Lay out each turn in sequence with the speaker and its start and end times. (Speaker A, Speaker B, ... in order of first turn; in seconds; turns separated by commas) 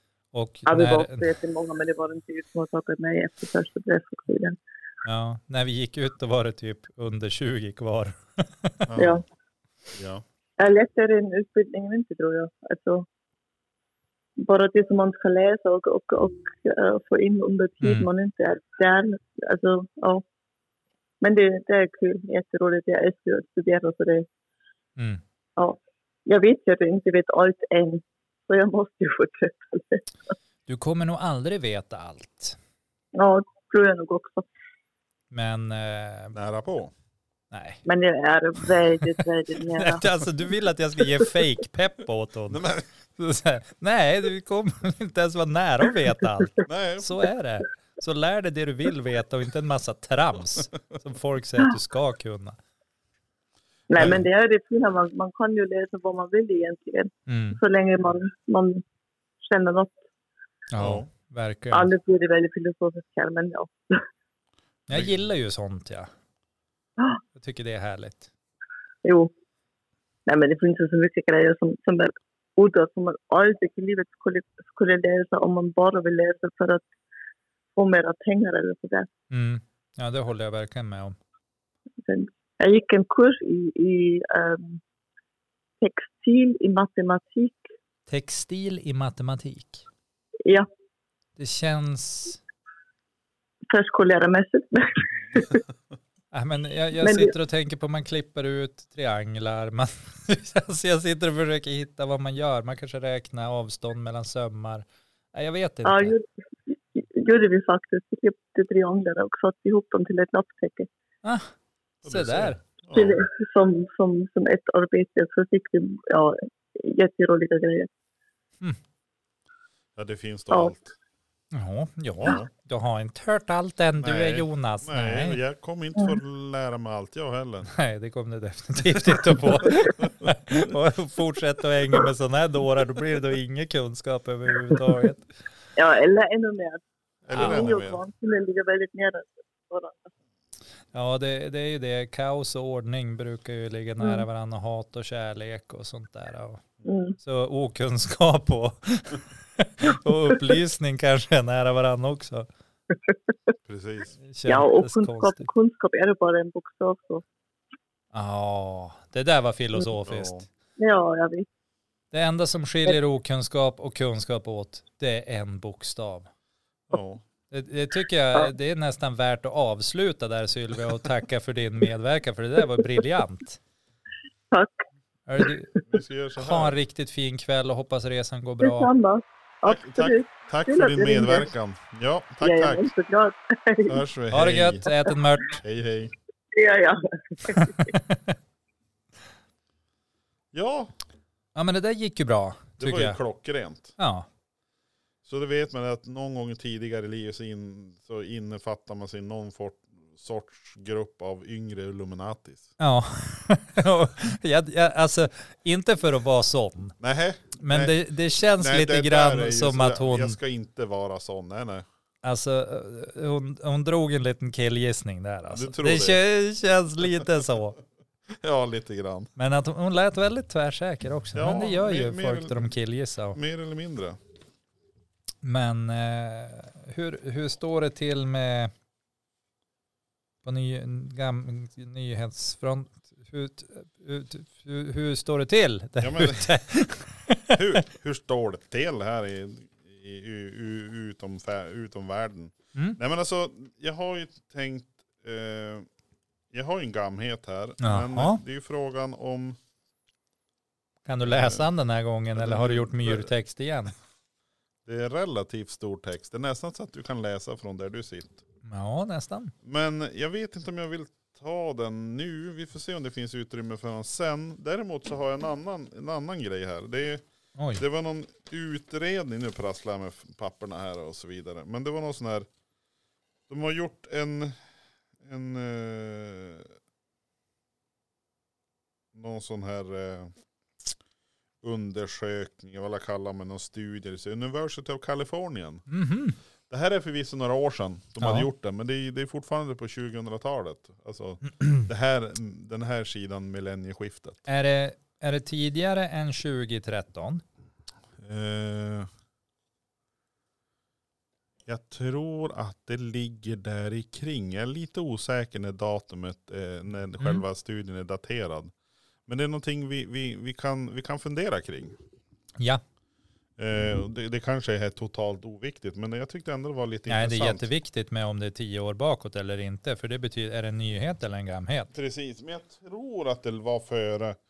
Speaker A: 0.3-1.3, Speaker B: 0.7-4.6, Speaker A: 5.0-8.9, Speaker C: 8.9-9.2, Speaker B: 8.9-9.2, Speaker C: 9.9-10.2, Speaker B: 10.6-13.1, Speaker B: 14.4-20.2, Speaker A: 17.8-18.1, Speaker B: 21.2-24.3, Speaker B: 25.6-30.1, Speaker A: 30.7-32.6, Speaker B: 33.1-34.5, Speaker A: 35.3-36.4, Speaker C: 36.3-36.9, Speaker A: 37.5-37.8, Speaker B: 37.8-40.1, Speaker A: 39.7-52.6, Speaker C: 42.5-42.8, Speaker C: 46.7-47.1, Speaker B: 53.9-58.8, Speaker C: 54.0-54.2, Speaker A: 57.3-57.6, Speaker B: 59.4-60.0, Speaker A: 60.7-61.9, Speaker C: 60.8-61.1, Speaker B: 61.7-64.0, Speaker A: 64.9-66.1, Speaker A: 67.3-68.3, Speaker B: 69.0-69.3, Speaker B: 70.2-76.8, Speaker B: 77.8-79.1, Speaker A: 79.3-81.2, Speaker B: 82.0-84.8, Speaker B: 85.8-87.7, Speaker A: 88.1-89.8, Speaker A: 91.4-92.4, Speaker B: 93.7-95.6, Speaker A: 96.3-106.1, Speaker B: 97.0-97.3, Speaker B: 105.8-110.9, Speaker A: 111.2-111.5, Speaker C: 112.0-113.2, Speaker A: 112.0-112.6, Speaker B: 112.9-117.9, Speaker C: 120.0-120.9, Speaker A: 121.5-125.4, Speaker C: 124.0-127.7, Speaker A: 127.7-135.3, Speaker B: 135.8-140.1, Speaker C: 137.2-138.0, Speaker A: 137.3-137.6, Speaker A: 140.9-146.6, Speaker B: 146.8-147.2, Speaker A: 147.2-152.5, Speaker C: 153.7-154.1, Speaker A: 154.3-155.5, Speaker B: 154.4-157.2, Speaker A: 158.1-160.4, Speaker C: 160.0-160.4, Speaker B: 160.8-161.5, Speaker A: 162.1-166.3, Speaker C: 166.9-167.2, Speaker A: 167.5-173.6, Speaker A: 175.3-175.7, Speaker C: 175.9-176.8, Speaker A: 176.4-178.9, Speaker B: 178.6-181.5, Speaker C: 179.6-182.9, Speaker B: 182.4-184.0, Speaker C: 183.8-184.8, Speaker A: 184.3-185.6, Speaker C: 185.6-186.1, Speaker B: 186.5-187.9, Speaker A: 187.5-188.3, Speaker C: 190.5-190.9, Speaker A: 191.5-193.2, Speaker C: 192.8-193.9, Speaker A: 194.0-194.3, Speaker C: 195.2-202.7, Speaker A: 202.8-207.0, Speaker C: 207.0-207.9, Speaker A: 207.6-210.4, Speaker C: 208.6-211.8, Speaker A: 212.2-217.8, Speaker C: 215.5-216.2, Speaker C: 218.4-219.3, Speaker A: 219.3-223.4, Speaker C: 221.3-222.7, Speaker C: 223.3-224.2, Speaker A: 225.4-228.7, Speaker A: 230.4-237.8, Speaker C: 236.0-236.5, Speaker C: 237.5-245.9, Speaker C: 246.5-249.6, Speaker A: 247.8-248.4, Speaker A: 251.1-253.9, Speaker C: 251.2-251.7, Speaker C: 252.3-253.3, Speaker C: 254.8-258.4, Speaker A: 258.6-259.5, Speaker C: 259.6-267.2, Speaker A: 267.6-267.8, Speaker C: 267.8-272.5, Speaker C: 273.5-274.6, Speaker C: 275.2-276.7, Speaker C: 279.1-280.3, Speaker C: 281.6-285.9, Speaker A: 285.9-286.4, Speaker C: 286.7-294.4, Speaker A: 288.2-288.5, Speaker A: 294.4-297.4, Speaker C: 298.2-299.1, Speaker C: 301.6-308.7, Speaker C: 309.3-311.9, Speaker C: 313.6-317.7, Speaker A: 317.1-321.9, Speaker C: 321.9-324.4